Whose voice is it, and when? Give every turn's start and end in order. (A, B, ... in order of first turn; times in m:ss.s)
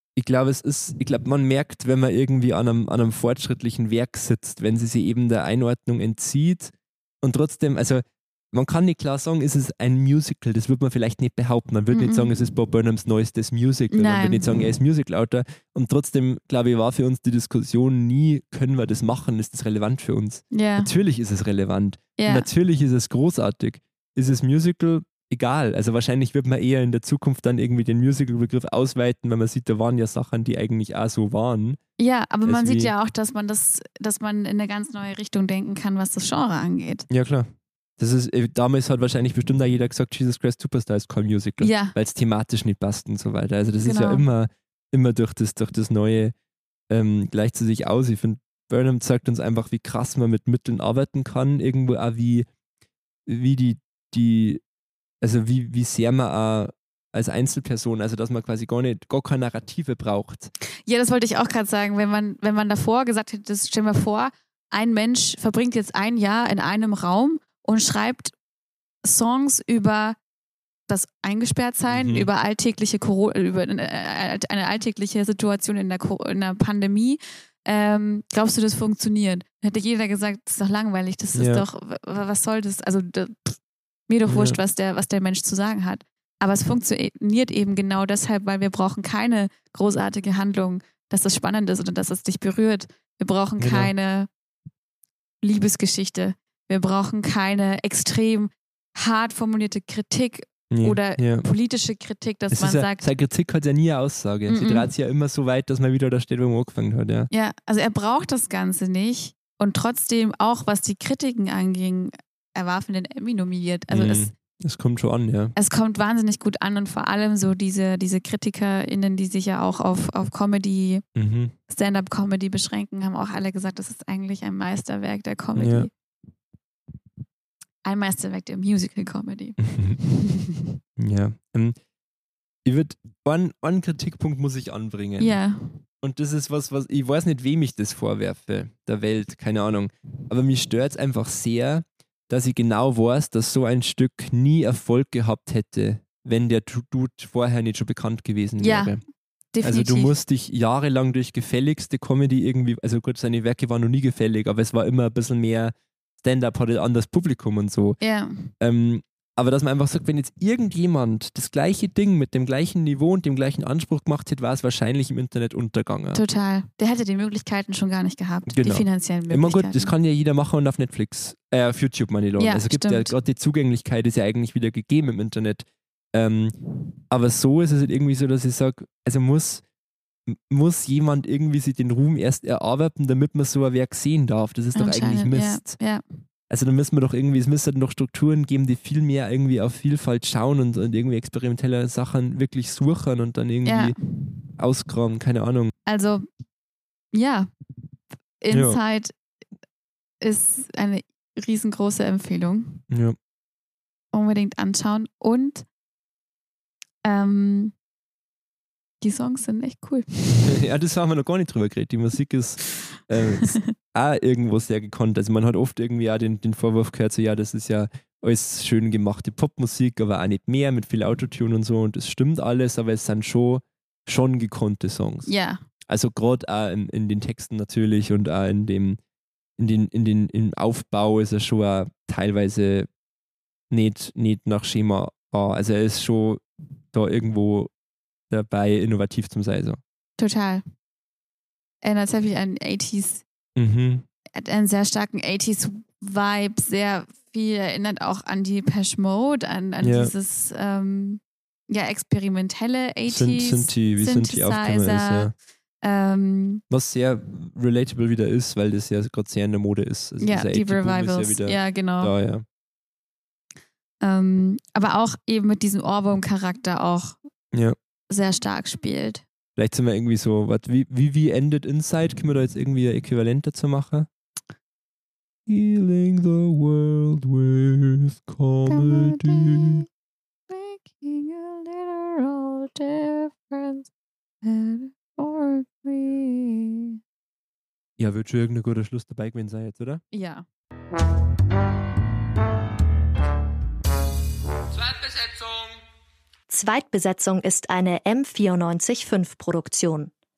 0:00.2-0:31.8 A
0:11.9-0:12.3 B
0:13.9-0:14.5 B
0:20.5-0:20.9 B
0:22.2-0:22.5 B
0:32.0-0:37.1 B
0:32.4-0:32.9 A
0:37.1-0:46.3 A
0:41.6-0:42.0 B
0:43.8-0:44.2 B
0:46.9-0:52.5 A
0:53.3-0:54.6 A
0:55.2-1:00.5 A
1:00.9-1:08.3 B
1:09.0-1:10.2 B
1:10.9-1:34.3 B
1:11.9-1:12.3 A
1:21.3-1:21.6 A
1:24.3-1:24.6 A
1:33.6-1:33.9 A
1:35.4-1:43.0 B
1:40.7-1:41.4 A
1:42.5-1:47.3 A
1:44.5-1:44.9 B
1:47.3-1:54.3 B
1:53.9-1:55.5 A
1:55.6-2:01.0 B
2:01.2-2:01.5 A
2:01.7-2:05.9 B
2:05.6-2:05.9 A
2:07.8-2:10.7 B
2:09.6-2:10.0 A
2:11.0-2:11.8 A
2:12.6-2:15.4 A
2:15.2-2:15.8 B
2:16.0-2:29.0 A
2:28.6-2:29.0 B
2:29.5-2:30.2 B
2:29.6-2:38.0 A
2:38.0-2:38.5 B
2:38.6-2:46.2 A
2:46.1-2:49.9 B
2:48.5-2:56.6 A
2:52.4-2:53.1 B
2:57.1-2:59.6 A
3:00.3-3:05.8 A
3:04.8-3:06.0 B
3:06.5-3:14.0 A
3:13.6-3:14.0 B
3:14.6-3:15.7 A
3:15.9-3:16.3 B
3:17.1-3:17.5 B
3:18.4-3:19.1 B
3:18.5-3:18.8 A
3:20.2-3:22.8 B
3:22.9-3:23.2 A
3:24.1-3:25.7 B
3:27.0-3:27.8 B
3:29.0-3:30.5 B
3:30.4-3:45.3 A
3:45.3-3:45.6 B
3:45.9-3:49.0 A
3:49.6-3:52.9 A
3:53.7-3:57.7 A
3:58.3-3:59.8 A
4:00.2-4:00.6 B
4:01.8-4:03.2 B
4:03.6-4:04.0 A
4:04.4-4:16.6 B
4:09.8-4:10.1 A
4:13.1-4:15.3 A
4:16.7-4:22.5 A
4:20.2-4:22.1 B
4:24.0-4:27.2 B
4:28.1-4:29.2 B
4:29.6-4:34.1 A
4:35.5-4:39.8 A
4:38.7-4:39.8 B
4:40.5-4:43.9 B
4:44.4-4:47.0 B
4:48.0-4:50.0 A
4:50.1-4:50.4 B
4:54.7-4:55.8 A
4:56.5-5:00.1 C